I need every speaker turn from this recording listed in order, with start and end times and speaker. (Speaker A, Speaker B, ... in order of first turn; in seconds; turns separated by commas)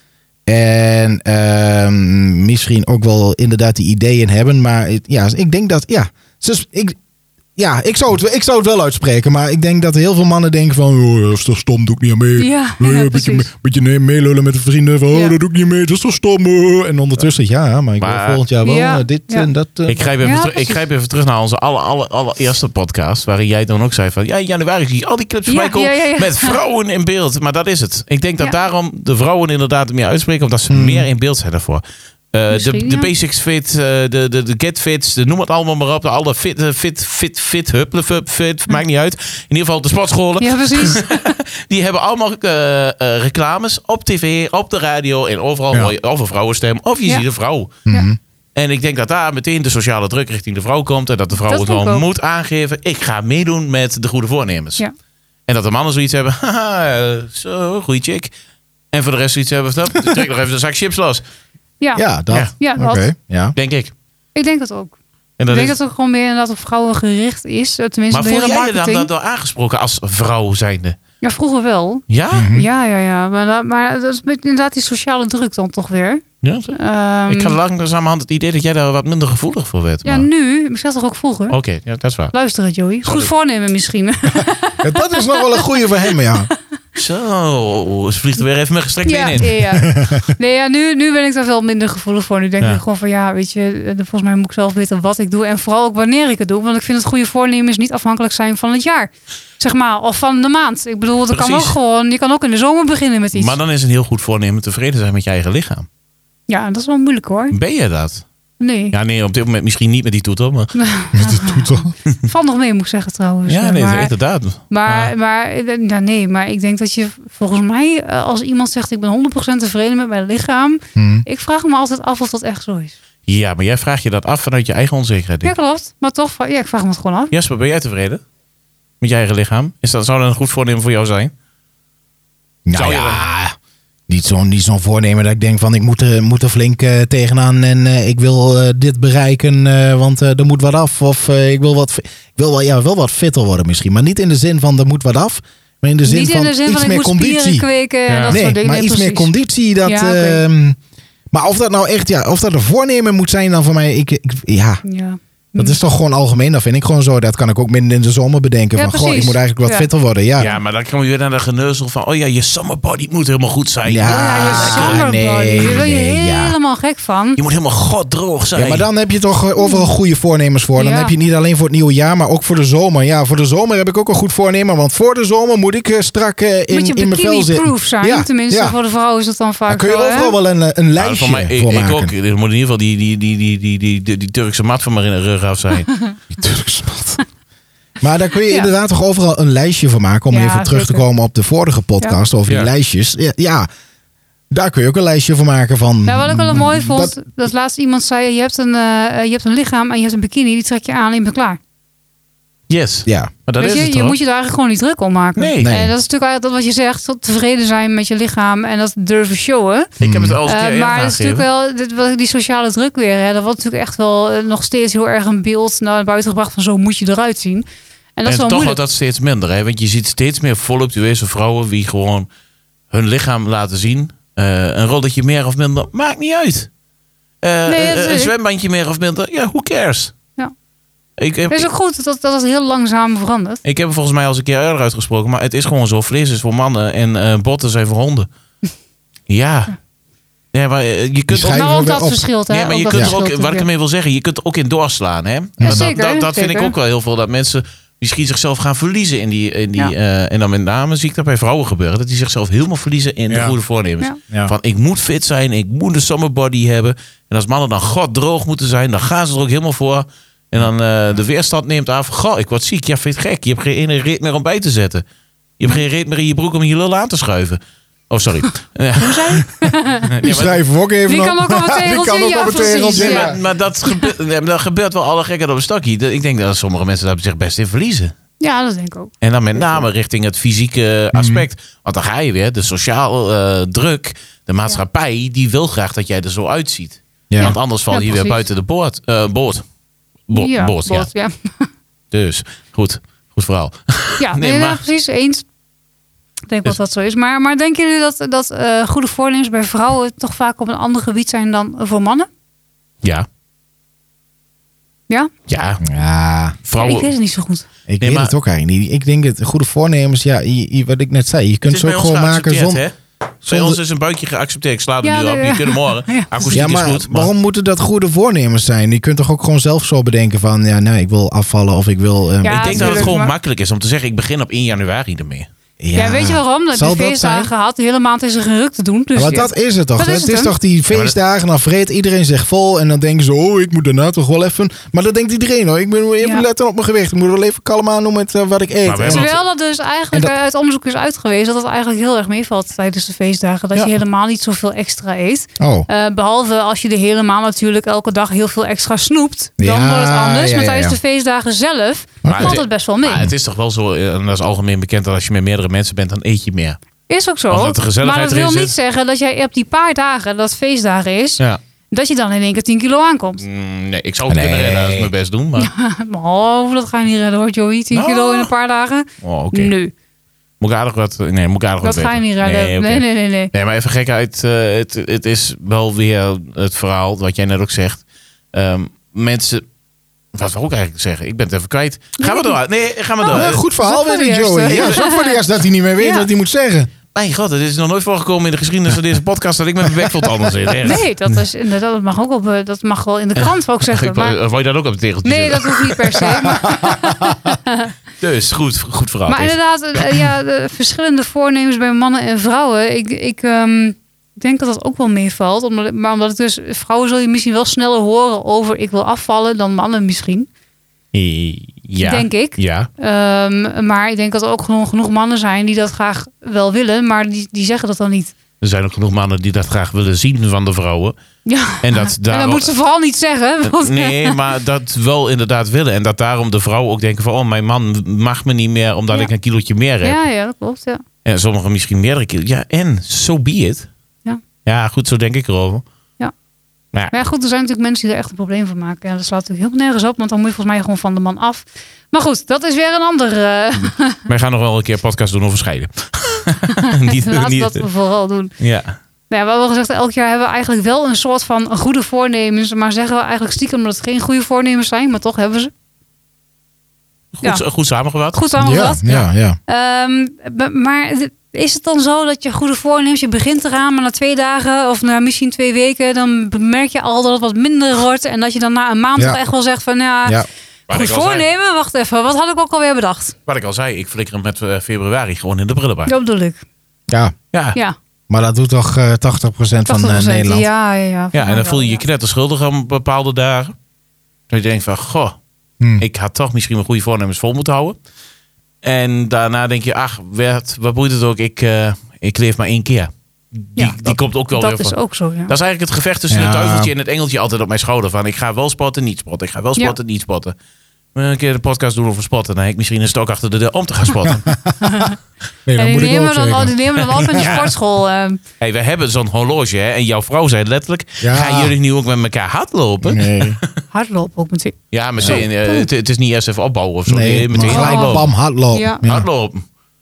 Speaker A: 0.5-7.0, Speaker A: 7.6-20.1, Speaker B: 12.4-13.5, Speaker C: 18.0-18.4, Speaker B: 18.6-19.5, Speaker C: 19.9-47.8, Speaker B: 20.2-20.8, Speaker B: 25.5-26.6, Speaker A: 30.7-31.1, Speaker B: 32.5-33.1, Speaker B: 40.4-41.0, Speaker A: 47.9-48.2, Speaker C: 48.6-54.8, Speaker B: 51.4-52.0, Speaker C: 55.5-58.3, Speaker C: 58.9-61.2, Speaker A: 62.0-63.5, Speaker B: 62.6-63.1, Speaker C: 63.6-63.9, Speaker B: 64.3-65.0, Speaker C: 65.4-65.8, Speaker B: 65.5-69.1, Speaker C: 68.1-71.0, Speaker B: 71.2-77.6, Speaker C: 72.1-72.5, Speaker A: 72.3-72.7, Speaker C: 76.4-76.7, Speaker C: 77.3-80.2, Speaker B: 80.0-81.6, Speaker C: 81.5-82.3, Speaker B: 82.3-85.6, Speaker C: 83.0-83.3, Speaker A: 84.3-86.5, Speaker C: 87.0-89.6, Speaker B: 89.0-103.6, Speaker A: 89.4-90.3, Speaker C: 101.3-101.8, Speaker C: 103.3-105.9, Speaker B: 106.5-107.5, Speaker C: 107.5-108.2, Speaker B: 108.6-109.0, Speaker C: 108.9-110.8, Speaker B: 110.8-114.1, Speaker A: 111.1-111.9, Speaker C: 113.5-115.1, Speaker B: 114.7-123.0, Speaker A: 121.0-121.2, Speaker C: 123.3-125.5, Speaker B: 125.4-127.3, Speaker C: 127.3-128.2, Speaker C: 129.0-131.3, Speaker A: 132.7-133.6, Speaker C: 132.7-133.2, Speaker A: 134.1-147.7, Speaker B: 146.1-149.3, Speaker C: 148.1-148.4, Speaker A: 148.3-150.8, Speaker B: 149.8-150.4, Speaker A: 151.3-154.8, Speaker B: 154.8-155.8, Speaker A: 155.6-160.5, Speaker B: 158.8-159.9, Speaker C: 160.4-165.0, Speaker A: 163.9-166.5, Speaker B: 164.1-167.4, Speaker C: 167.4-168.9, Speaker A: 168.6-178.8, Speaker B: 169.6-169.9, Speaker B: 170.8-171.1, Speaker B: 176.7-180.4, Speaker A: 179.7-182.1, Speaker C: 181.0-185.9, Speaker A: 186.4-187.2, Speaker A: 188.0-193.7, Speaker B: 190.3-191.0, Speaker A: 194.5-197.1, Speaker B: 196.1-201.6, Speaker C: 202.7-204.2, Speaker A: 203.1-203.3, Speaker B: 203.6-209.9, Speaker C: 205.4-205.7, Speaker A: 205.6-205.9, Speaker C: 210.0-211.4, Speaker A: 210.0-210.4, Speaker B: 210.4-218.8, Speaker C: 218.3-222.3, Speaker C: 222.9-226.7, Speaker C: 227.4-230.1, Speaker B: 227.7-228.3, Speaker C: 231.2-231.7, Speaker B: 231.5-233.6, Speaker C: 233.6-238.3, Speaker C: 239.3-239.7, Speaker C: 240.5-241.9, Speaker A: 241.3-242.2, Speaker B: 241.5-243.7, Speaker C: 242.5-265.0, Speaker A: 245.6-245.9, Speaker B: 245.6-246.8, Speaker A: 253.3-253.6, Speaker C: 265.6-267.6, Speaker C: 268.1-269.4, Speaker B: 269.0-270.1, Speaker C: 270.1-270.6, Speaker A: 270.2-273.4, Speaker B: 271.1-273.4, Speaker C: 272.9-278.1, Speaker B: 278.4-279.9, Speaker C: 279.2-289.6, Speaker A: 281.1-281.5, Speaker A: 287.3-287.6, Speaker B: 287.4-288.4, Speaker C: 290.3-291.1, Speaker B: 290.3-291.7, Speaker C: 292.1-294.8, Speaker B: 294.2-295.5, Speaker B: 296.5-302.3, Speaker C: 305.5-305.8, Speaker A: 305.8-306.6, Speaker C: 306.6-307.1, Speaker B: 306.8-307.7, Speaker A: 307.9-312.8, Speaker C: 308.0-308.3, Speaker C: 311.6-312.9, Speaker A: 313.4-313.8, Speaker C: 313.5-317.3, Speaker B: 315.0-316.7, Speaker A: 316.5-323.1, Speaker B: 322.4-323.3, Speaker C: 322.5-325.5, Speaker A: 325.8-327.5, Speaker B: 325.9-330.5, Speaker A: 329.1-339.3, Speaker C: 338.9-339.4, Speaker B: 339.1-353.3, Speaker A: 345.6-345.9, Speaker A: 349.6-351.0, Speaker A: 352.2-352.6, Speaker C: 352.3-356.8, Speaker B: 357.1-363.4, Speaker C: 357.5-358.8, Speaker C: 363.4-365.7, Speaker A: 364.3-365.1, Speaker B: 365.6-369.9, Speaker C: 367.9-368.5, Speaker C: 369.2-369.7, Speaker C: 370.6-378.0, Speaker B: 371.8-373.5, Speaker C: 378.5-379.6, Speaker C: 380.3-383.6, Speaker B: 382.2-382.6, Speaker B: 383.2-385.4, Speaker A: 383.3-386.9, Speaker C: 384.6-385.1, Speaker B: 386.0-386.3, Speaker C: 387.1-391.1, Speaker A: 390.0-390.8, Speaker B: 390.8-394.4, Speaker C: 393.4-396.6, Speaker B: 395.2-397.9, Speaker A: 396.6-397.3, Speaker C: 398.2-399.6, Speaker B: 399.3-410.5, Speaker C: 411.1-412.9, Speaker B: 412.0-418.3, Speaker C: 418.6-421.1, Speaker B: 421.5-424.4, Speaker C: 421.8-422.7, Speaker C: 423.6-430.2, Speaker B: 430.0-431.0, Speaker C: 431.2-433.9, Speaker C: 434.6-435.8, Speaker B: 437.1-444.2, Speaker C: 444.3-447.9, Speaker B: 446.7-448.5, Speaker C: 448.6-449.0, Speaker B: 449.3-455.7, Speaker C: 457.3-459.3, Speaker B: 458.3-459.1, Speaker A: 458.6-459.6, Speaker B: 459.7-473.4, Speaker C: 470.9-471.4, Speaker C: 473.5-476.1, Speaker B: 476.1-476.6, Speaker A: 477.1-477.4, Speaker C: 477.5-477.8, Speaker A: 478.3-480.7, Speaker B: 479.9-482.0, Speaker C: 481.3-483.7, Speaker C: 484.5-485.4, Speaker A: 485.8-486.1, Speaker C: 486.0-488.0, Speaker C: 488.8-495.0, Speaker B: 493.8-495.5, Speaker C: 495.5-500.6, Speaker A: 496.3-496.9, Speaker C: 501.1-504.5, Speaker B: 504.8-505.2, Speaker A: 505.7-507.6, Speaker B: 505.8-508.4, Speaker C: 507.3-507.7, Speaker C: 508.6-513.7, Speaker A: 511.2-511.7, Speaker A: 513.0-513.6, Speaker B: 513.9-515.9, Speaker C: 514.9-518.3, Speaker A: 515.2-515.4, Speaker A: 517.1-519.3, Speaker B: 517.6-519.0, Speaker C: 519.0-519.6